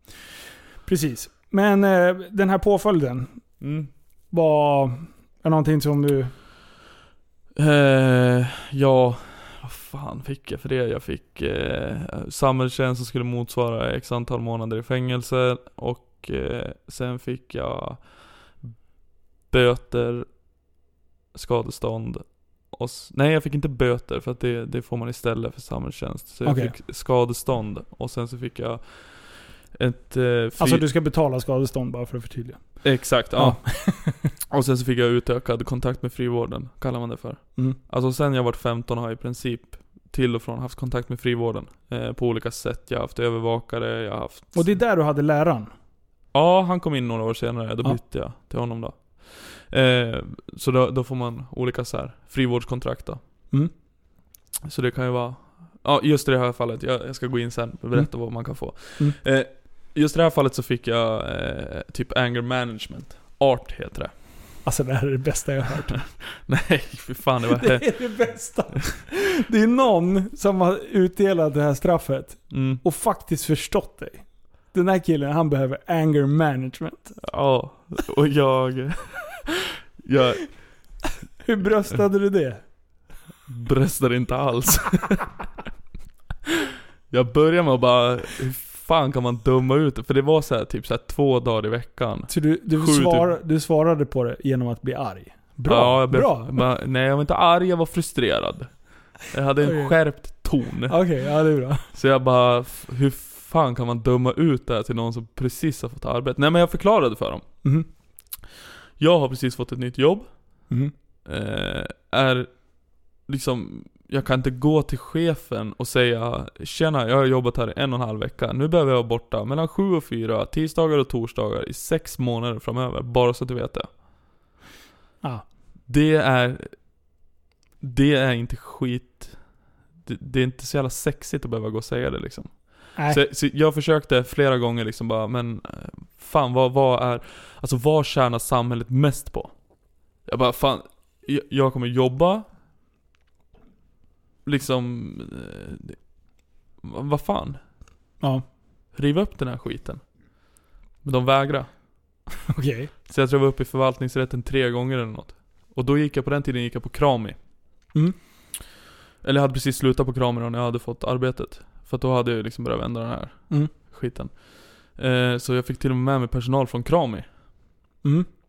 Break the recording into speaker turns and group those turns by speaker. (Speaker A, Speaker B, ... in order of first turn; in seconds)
Speaker A: 0.8-3.3, 4.3-6.3, 26.4-26.7, 30.6-34.3, 44.5-45.7, 64.6-66.0, 67.5-77.1, 81.4-82.6, 92.3-96.6, 99.6-99.9, 100.9-101.9, 152.5-152.9
Speaker B: 3.6-3.9, 7.5-18.8, 19.5-20.3, 21.3-30.8, 32.8-33.6, 34.5-44.7, 46.3-53.2, 54.6-64.1, 65.9-67.9, 72.5-72.8, 77.2-80.5, 83.5-85.3, 87.1-93.3, 95.7-100.9, 101.9-107.4, 109.0-110.3, 111.2-112.6, 113.2-123.9, 125.9-126.7, 127.8-129.4, 130.0-139.5, 140.2-142.4, 144.4-146.0, 146.8-147.6, 148.9-150.0, 151.0-151.7, 153.1-157.4, 159.2-167.2